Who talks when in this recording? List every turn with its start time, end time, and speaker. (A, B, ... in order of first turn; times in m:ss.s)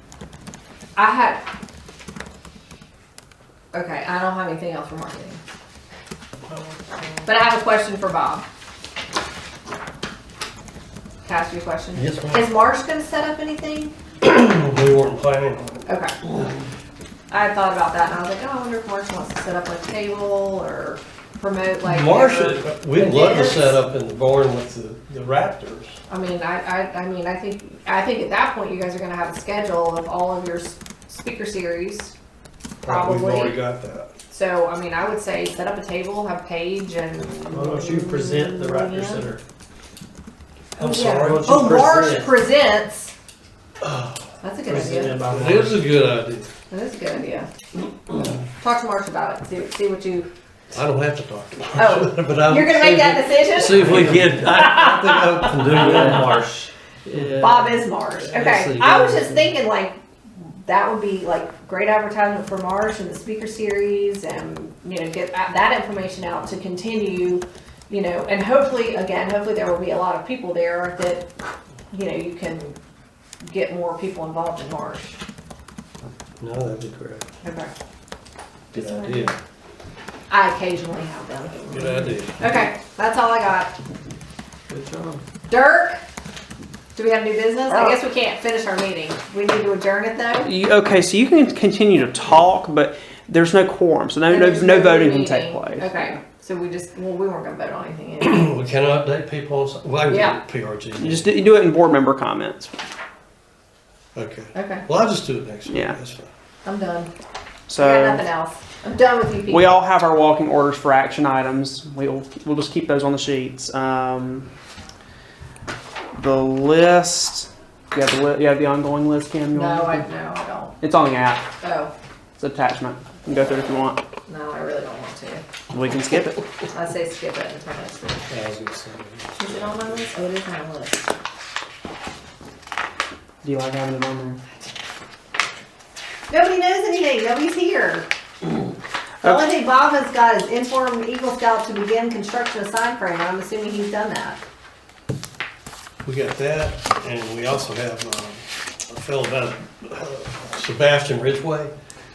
0:01.0-0:01.4 A
0:03.7-0:05.4 A
0:07.2-0:08.4 A
0:11.2-0:13.9 A
0:12.0-0:12.5 B
0:14.2-0:15.9 B
0:15.9-0:16.2 A
0:17.3-0:23.8 A
0:21.8-0:26.0 B
0:26.1-0:32.1 A
0:32.8-0:33.6 A
0:32.8-0:34.1 B
0:34.3-0:39.3 A
0:37.5-0:39.4 C
0:40.8-0:41.6 B
0:40.8-0:43.1 A
0:41.3-0:42.4 C
0:43.8-0:44.2 B
0:44.4-0:45.2 A
0:44.7-0:45.8 C
0:45.2-0:46.5 B
0:46.7-0:47.5 A
0:48.5-0:50.3 A
0:50.7-0:56.4 B
0:51.8-0:55.5 A
0:53.8-0:54.2 C
0:55.7-0:59.5 C
0:57.3-1:11.3 A
1:11.9-1:12.8 A
1:13.4-1:15.2 A
1:16.4-1:17.2 B
1:17.4-1:17.7 A
1:18.7-1:19.4 B
1:18.7-1:19.4 A
1:20.3-1:23.8 A
1:21.6-1:22.5 B
1:24.8-1:25.2 C
1:25.5-1:26.0 A
1:27.0-1:30.5 A
1:30.4-1:35.9 D
1:34.3-1:38.5 A
1:38.2-1:41.3 B
1:40.1-1:40.4 A
1:41.0-1:42.7 D
1:44.2-1:46.3 B
1:44.5-1:44.9 A
1:45.7-1:46.0 D
1:46.6-1:47.1 A
1:47.7-1:48.2 D
1:47.8-1:49.8 A
1:49.5-1:54.5 D
1:56.1-2:00.0 D
1:59.5-2:00.8 A
2:00.8-2:01.4 D
2:01.6-2:01.9 A
2:02.4-2:04.0 D
2:04.3-2:05.4 A
2:05.7-2:06.4 D
2:06.7-2:08.2 A
2:08.3-2:10.1 B
2:09.4-2:11.1 A
2:13.4-2:14.4 D
2:16.3-2:18.1 A
2:19.2-2:24.4 A
2:26.0-2:31.7 B